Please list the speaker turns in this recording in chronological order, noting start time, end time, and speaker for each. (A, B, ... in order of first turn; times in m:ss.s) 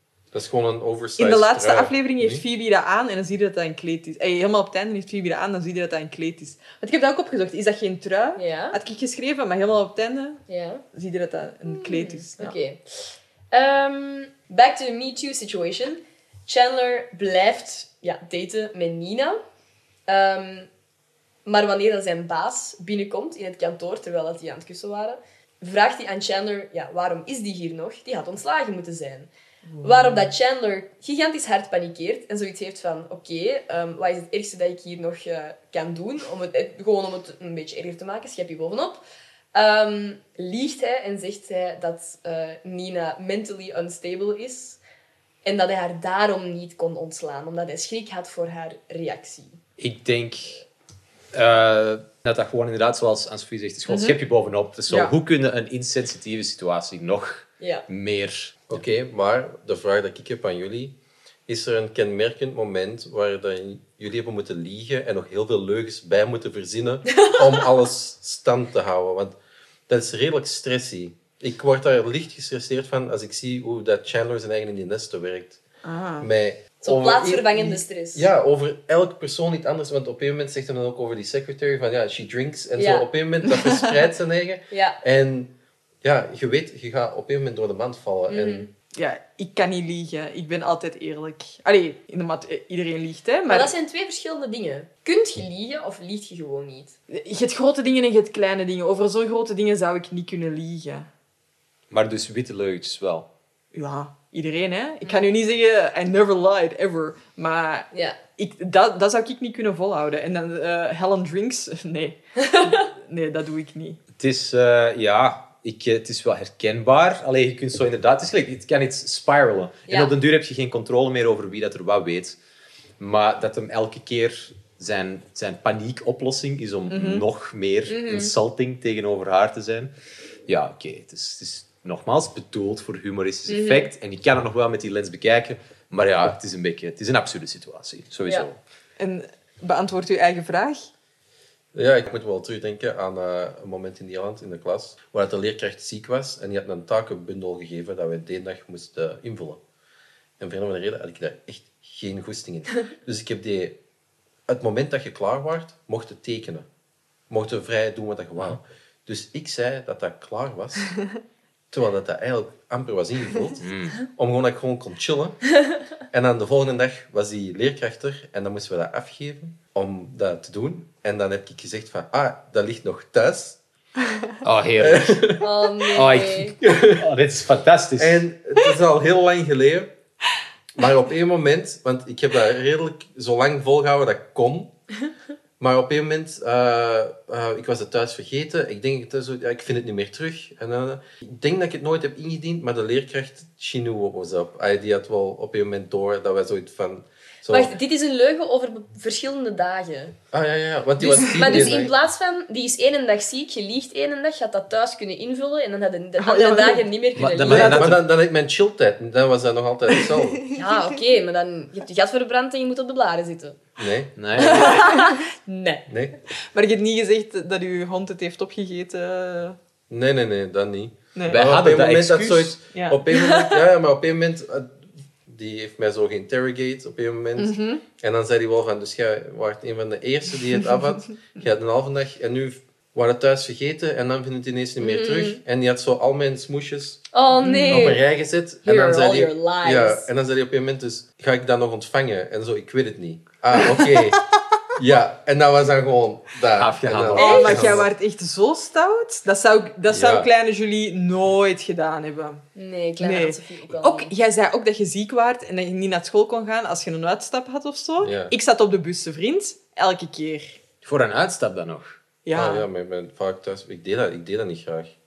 0:00.3-0:02.4 A
0:01.2-0:10.4 B
0:08.4-0:08.8 C
0:10.5-0:10.8 C
0:10.9-0:12.5 B
0:11.6-0:19.4 C
0:20.1-0:20.7 C
0:21.4-0:29.3 C
0:29.6-0:30.3 B
0:29.8-0:39.0 C
0:39.5-0:44.8 C
0:45.4-0:49.6 C
0:49.8-0:50.6 D
0:51.3-0:58.8 D
0:53.9-0:54.2 B
0:54.9-0:55.1 B
0:57.6-0:57.8 C
0:58.7-1:01.0 A
1:01.5-1:09.4 A
1:09.9-1:15.6 A
1:15.8-1:16.3 B
1:16.2-1:28.7 A
1:16.8-1:18.3 C
1:22.8-1:23.0 C
1:23.4-1:23.9 B
1:24.7-1:25.0 C
1:28.3-1:28.7 C
1:28.9-1:33.7 B
1:33.5-1:37.0 C
1:37.1-1:41.1 B
1:41.9-1:43.3 D
1:43.7-1:54.0 B
1:47.9-1:48.2 C
1:52.4-1:52.8 C
1:54.2-2:02.4 D
1:59.9-2:00.1 C
2:03.0-2:09.9 D
2:06.9-2:07.2 B
2:07.9-2:08.3 C
2:10.5-2:18.6 D
2:13.5-2:13.9 C
2:19.0-2:20.9 B
2:21.7-2:29.6 A
2:30.4-2:33.8 A
2:34.5-2:36.7 A
2:37.3-2:41.0 A
2:41.7-2:45.4 A
2:43.6-2:44.0 D
2:46.1-2:53.6 A
2:54.4-2:55.4 D
2:54.8-2:55.4 A
2:55.4-2:56.5 C
2:55.9-2:58.2 D
2:56.6-2:57.0 A
2:58.0-2:59.9 A
3:00.8-3:04.7 A
3:05.6-3:17.8 A
3:17.5-3:20.2 C
3:20.3-3:21.9 A
3:21.1-3:21.6 B
3:21.2-3:27.8 C
3:26.2-3:26.9 B
3:27.2-3:28.0 D
3:27.5-3:30.4 A
3:30.5-3:33.6 C
3:33.8-3:34.1 A
3:34.2-3:34.8 D
3:34.4-3:35.8 C
3:35.9-3:36.2 A
3:36.5-3:39.6 B
3:39.9-3:57.0 A
3:41.2-3:41.4 B
3:41.3-3:42.6 D
3:42.7-3:43.0 B
3:43.1-3:43.6 C
3:47.4-3:47.8 B
3:54.8-3:55.4 C
3:57.1-3:58.0 C
3:57.4-3:57.9 B
3:57.7-4:04.2 A
3:58.6-4:00.0 C
4:04.8-4:07.9 A
4:06.6-4:07.8 D
4:07.1-4:12.4 B
4:09.9-4:10.3 A
4:12.5-4:14.1 C
4:13.0-4:20.6 B
4:18.0-4:18.3 A
4:20.8-4:21.9 D
4:22.2-4:22.6 B
4:22.3-4:24.9 A